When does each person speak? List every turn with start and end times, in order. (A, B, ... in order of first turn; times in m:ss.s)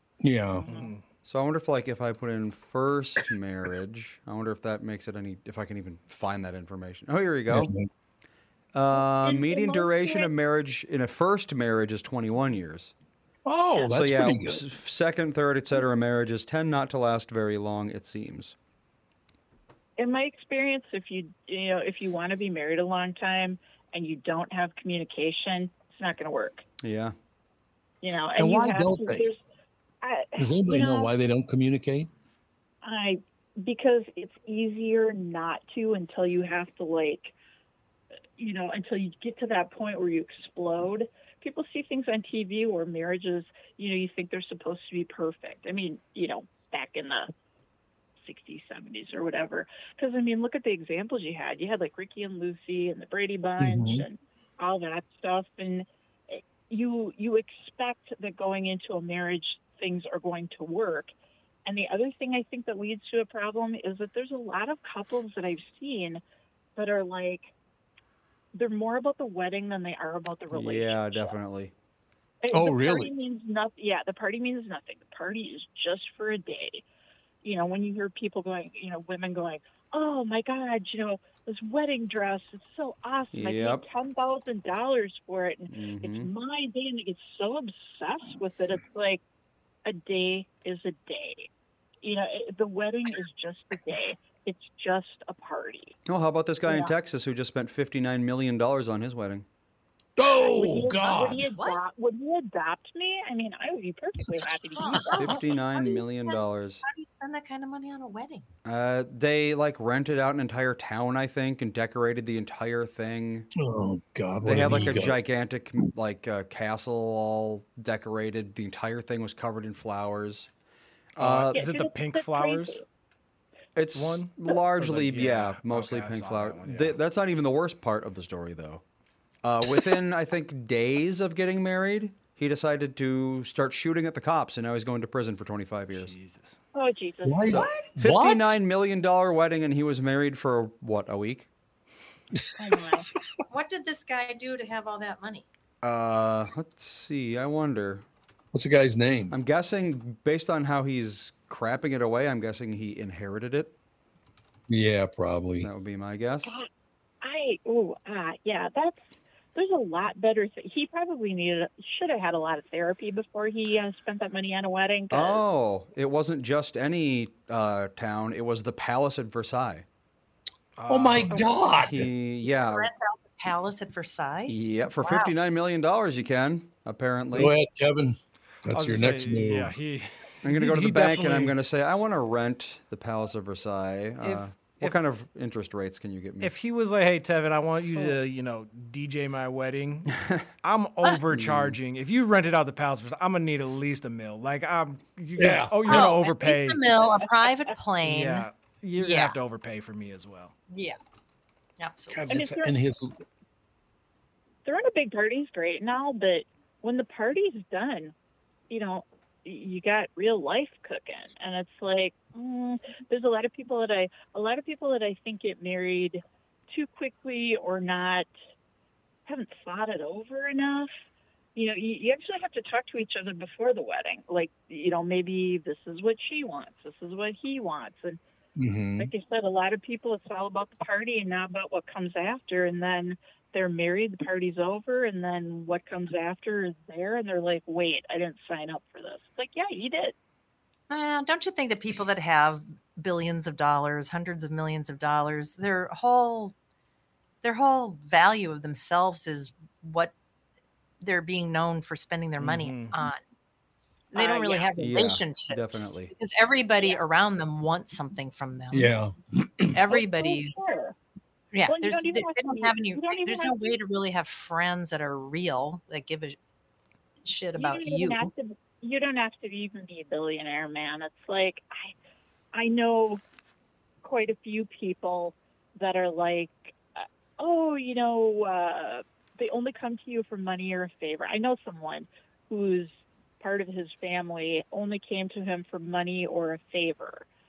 0:00.2-0:00.7 A
0:00.6-0:01.0 B
0:01.2-0:07.7 C
0:07.5-0:07.9 A
0:08.7-0:12.9 C
0:08.9-0:10.3 D
0:13.4-0:14.6 A
0:13.8-0:18.6 C
0:20.0-0:26.6 D
0:26.8-0:27.1 C
0:28.0-0:29.4 D
0:28.3-0:29.3 A
0:30.0-0:31.1 D
0:30.4-0:32.1 A
0:32.8-0:37.3 D
0:38.4-0:47.3 D
0:48.2-1:01.1 D
0:53.6-0:54.0 A
1:01.6-1:06.2 D
1:06.8-1:07.5 D
1:08.5-1:11.4 D
1:10.5-1:11.7 C
1:12.4-1:16.8 D
1:12.5-1:13.1 A
1:17.4-1:29.2 D
1:23.3-1:23.9 C
1:25.7-1:26.3 C
1:29.8-1:31.5 D
1:32.0-1:36.0 D
1:36.1-1:39.4 C
1:36.7-1:36.9 D
1:40.2-1:41.5 A
1:40.4-1:45.3 D
1:41.5-1:41.9 E
1:44.8-1:48.4 E
1:45.2-1:46.8 C
1:48.6-1:53.5 C
1:53.6-1:55.2 A
1:54.4-2:00.5 C
2:01.2-2:02.8 B
2:01.2-2:01.6 C
2:01.5-2:02.8 D
2:03.7-2:08.8 C
2:03.9-2:07.0 B
2:09.4-2:16.2 C
2:15.9-2:16.6 B
2:16.7-2:17.9 D
2:17.2-2:18.5 A
2:18.0-2:21.5 C
2:22.6-2:23.1 D
2:23.5-2:25.4 E
2:25.8-2:28.0 C
2:28.5-2:29.3 A
2:29.3-2:33.7 C
2:34.7-2:35.7 A
2:35.6-2:36.6 C
2:37.2-2:45.4 D
2:45.1-2:49.8 C
2:50.8-2:51.8 B
2:50.9-2:52.1 A
2:51.8-2:52.9 C
2:52.4-2:55.3 E
2:54.5-2:57.5 C
2:57.3-2:59.7 A
2:58.7-3:01.6 B
3:00.4-3:06.5 C
3:04.2-3:05.0 B
3:06.4-3:17.1 B
3:11.3-3:11.8 C
3:15.4-3:16.2 A
3:15.9-3:18.5 E
3:18.0-3:20.5 B
3:19.0-3:19.4 E
3:20.7-3:21.0 E
3:21.8-3:22.3 E
3:22.1-3:23.2 A
3:22.3-3:22.7 D
3:24.6-3:28.1 D
3:28.7-3:38.3 D
3:39.2-3:40.9 D
3:41.5-3:48.2 D
3:48.6-3:49.1 A
3:49.0-4:00.1 D
4:00.9-4:06.5 E
4:07.4-4:10.1 E
4:11.0-4:13.2 E
4:12.4-4:13.0 B
4:14.1-4:18.9 E
4:14.1-4:14.7 D
4:14.8-4:16.1 C
4:18.7-4:19.8 A
4:19.7-4:20.6 E
4:19.9-4:21.0 D
4:21.5-4:26.4 E
4:21.6-4:23.8 D
4:27.2-4:28.3 E
4:27.6-4:31.9 D
4:32.5-4:33.2 D
4:34.0-4:47.2 D